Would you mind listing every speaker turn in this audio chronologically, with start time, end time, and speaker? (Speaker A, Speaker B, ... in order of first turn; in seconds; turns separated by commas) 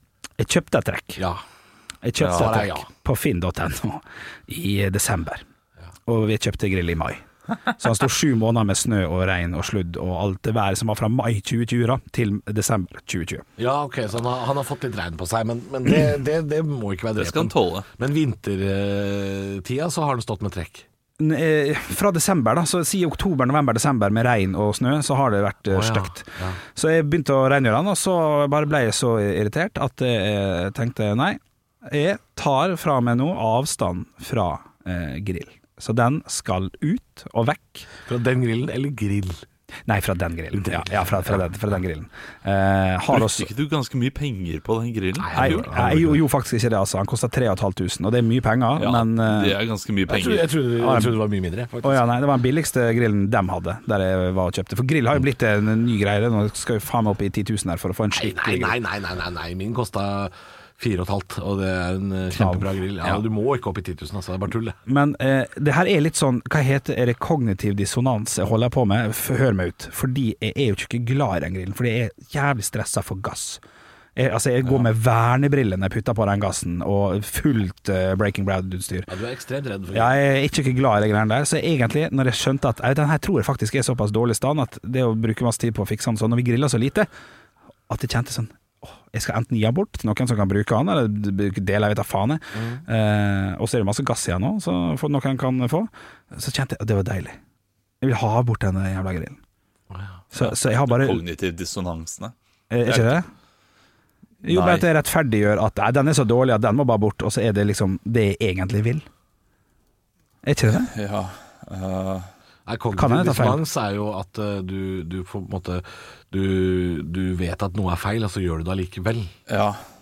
Speaker A: 0.4-1.2, Speaker A: 2.0-5.4, Speaker B: 2.2-2.5, Speaker C: 2.2-2.9, Speaker A: 6.1-13.4, Speaker C: 13.6-20.9, Speaker B: 17.2-17.9, Speaker A: 21.2-37.9, Speaker C: 25.7-26.6, Speaker C: 38.0-39.4, Speaker A: 39.9-43.5, Speaker C: 40.6-41.4, Speaker B: 43.1-45.6, Speaker C: 45.2-46.2, Speaker A: 45.3-49.5, Speaker B: 48.8-50.5, Speaker C: 50.1-52.0, Speaker A: 50.8-51.1, Speaker A: 51.8-58.7, Speaker C: 58.2-64.8, Speaker A: 62.3-63.2, Speaker A: 64.9-73.6, Speaker A: 74.2-79.1, Speaker C: 79.1-80.1, Speaker A: 79.9-87.1, Speaker A: 87.9-97.4, Speaker C: 92.5-92.8, Speaker A: 98.0-99.4, Speaker C: 99.9-100.2, Speaker A: 100.3-101.2, Speaker B: 100.3-102.3, Speaker A: 102.7-103.3, Speaker B: 102.9-103.2, Speaker A: 104.4-109.0, Speaker B: 104.5-104.8, Speaker A: 110.4-110.9, Speaker B: 110.8-112.3, Speaker C: 112.7-119.3, Speaker A: 113.0-113.6, Speaker B: 119.5-119.8